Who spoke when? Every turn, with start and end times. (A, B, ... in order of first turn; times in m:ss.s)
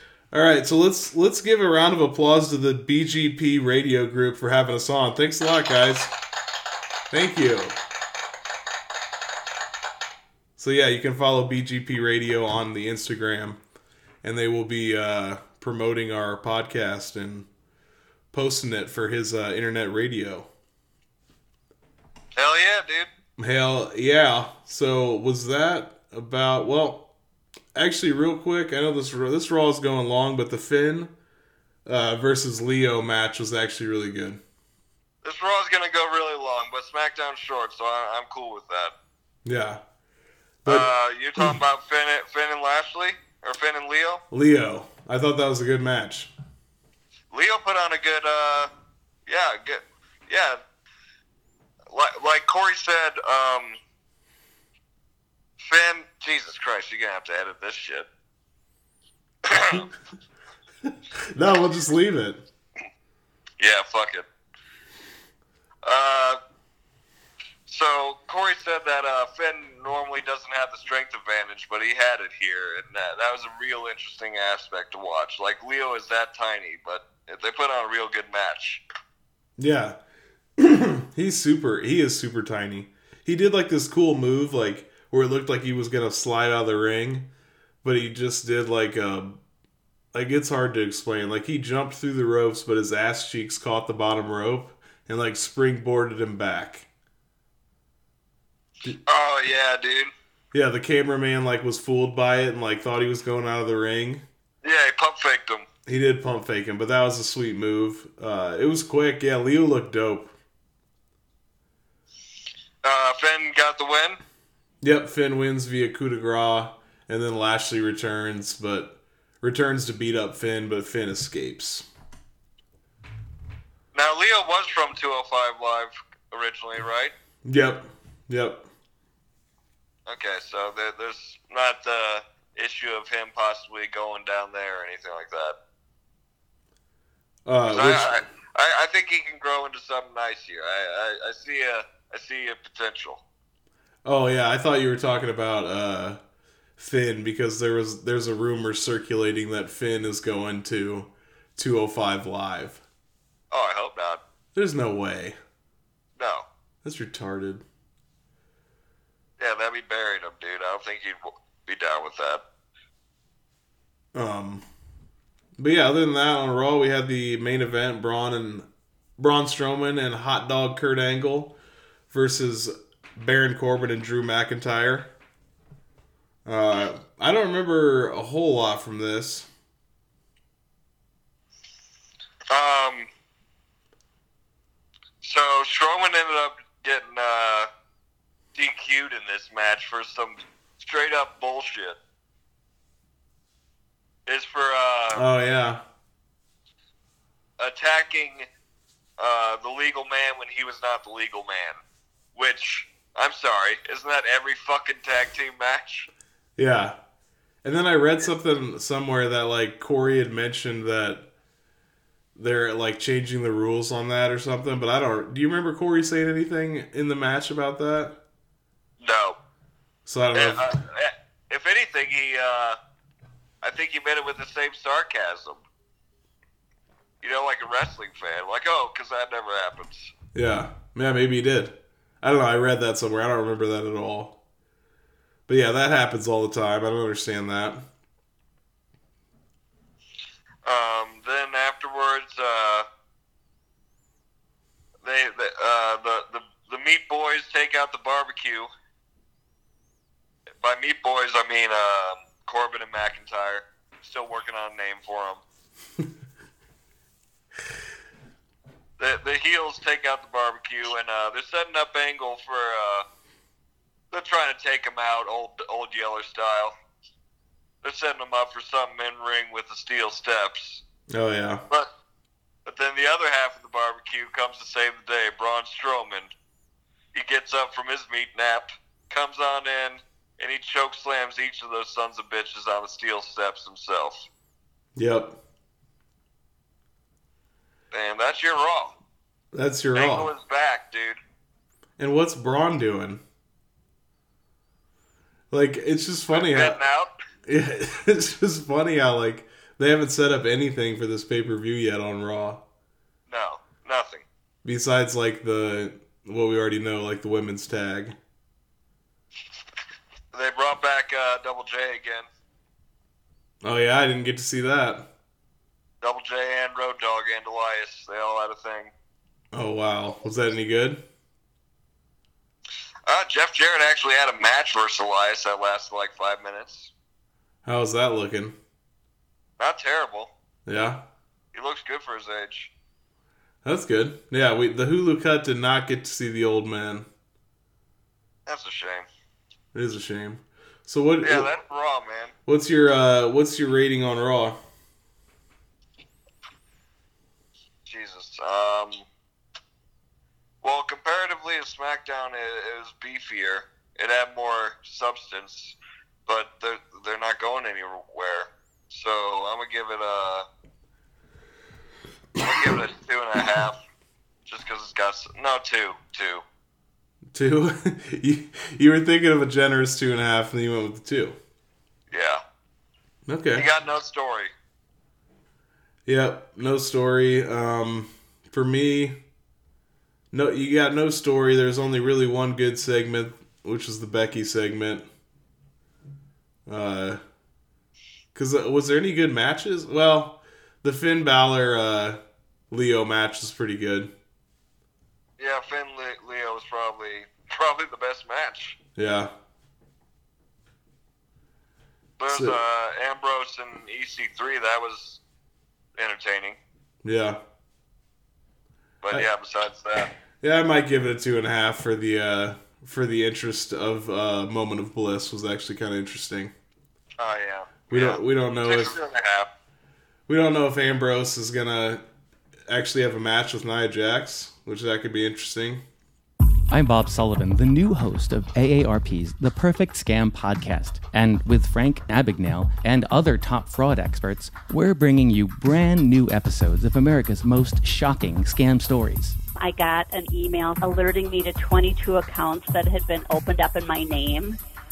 0:00.3-0:06.1 A
0:07.1-0:07.8 A
0:10.6-0:13.6 A
0:14.2-0:17.5 A
0:18.3-0:20.5 A
0:22.4-0:23.1 B
0:23.4-0:27.1 A
0:27.7-0:31.1 A
0:31.8-0:34.4 A
0:35.2-0:38.9 B
0:39.4-0:39.8 A
0:40.6-0:41.6 A
0:40.6-0:44.2 B
0:44.3-0:46.3 A
0:47.3-0:48.7 B
0:49.3-0:50.6 B
0:51.9-0:53.8 B
0:55.6-0:58.1 B
0:59.5-0:59.9 B
1:00.9-1:02.4 A
1:03.6-1:04.2 B
1:05.8-1:06.4 B
1:07.7-1:18.8 B
1:19.6-1:20.0 A
1:20.6-1:27.3 A
1:27.8-1:29.4 A
1:30.1-1:36.9 A
1:39.0-1:40.1 B
1:40.5-1:44.2 A
1:44.6-1:45.6 B
1:45.8-1:50.3 A
1:52.8-1:54.2 B
1:54.8-2:01.9 A
2:03.9-2:07.1 B
2:07.4-2:08.7 A
2:10.1-2:15.6 B
2:17.4-2:18.2 A
2:17.7-2:23.2 B
2:24.0-2:26.2 A
2:26.8-2:32.8 A
2:33.5-2:34.2 B
2:34.5-2:35.4 A
2:36.2-2:36.5 B
2:36.8-2:37.6 A
2:39.4-2:42.4 B
2:44.1-2:44.6 A
2:45.6-2:48.7 A
2:49.2-2:51.6 A
2:52.1-2:55.1 A
2:56.4-2:59.5 A
3:02.5-3:03.1 B
3:05.2-3:07.7 B
3:08.5-3:12.0 B
3:14.3-3:15.2 B
3:15.1-3:15.8 A
3:17.6-3:18.5 B
3:19.2-3:21.8 B
3:22.3-3:26.1 B
3:26.6-3:27.0 A
3:27.6-3:31.3 A
3:32.3-3:38.2 A
3:39.0-3:39.4 B
3:40.0-3:40.7 A
3:40.3-3:42.8 B
3:43.6-3:45.6 B
3:47.2-3:50.1 B
3:50.3-3:54.4 A
3:55.5-3:57.8 A
4:00.6-4:02.9 B
4:05.0-4:08.7 B
4:10.6-4:15.4 B
4:19.0-4:23.0 B
4:24.1-4:26.7 B
4:27.8-4:30.8 B
4:31.1-4:31.6 A
4:32.6-4:36.3 B
4:37.1-4:44.3 B
4:45.0-4:45.4 A
4:47.9-4:49.0 B
4:49.5-4:50.3 A
4:49.9-4:51.2 B
4:52.0-4:53.2 A
4:55.5-4:56.8 A
4:56.3-4:57.1 B
4:57.4-5:02.6 A
5:03.3-5:04.2 B
5:04.6-5:08.2 A
5:10.3-5:12.3 B
5:13.6-5:15.1 A
5:16.0-5:18.9 B
5:19.5-5:21.0 A
5:23.1-5:26.9 B
5:27.6-5:28.6 A
5:29.6-5:30.3 B
5:30.6-5:31.0 A
5:31.5-5:32.7 B
5:33.6-5:37.1 A
5:38.5-5:39.1 B
5:39.7-5:41.5 A
5:41.2-5:42.3 B
5:42.5-5:44.6 A
5:47.8-5:49.0 B
5:50.6-6:00.4 B
6:02.4-6:03.8 B
6:04.4-6:06.4 B
6:07.3-6:11.4 A
6:12.1-6:12.4 B
6:13.3-6:13.7 A
6:13.6-6:14.5 B
6:16.0-6:19.2 A
6:20.3-6:25.1 A
6:26.6-6:27.2 A
6:28.3-6:34.1 A
6:35.4-6:38.8 B
6:39.0-6:39.3 A
6:42.2-6:45.2 B
6:42.3-6:42.6 A
6:46.0-6:46.6 B
6:47.0-6:47.4 A
6:49.0-6:50.1 B
6:50.4-6:56.5 A
6:57.2-6:59.5 B
6:57.9-6:59.0 A
7:00.3-7:02.0 A
7:02.7-7:05.8 A
7:06.7-7:19.4 C
7:19.6-7:24.6 D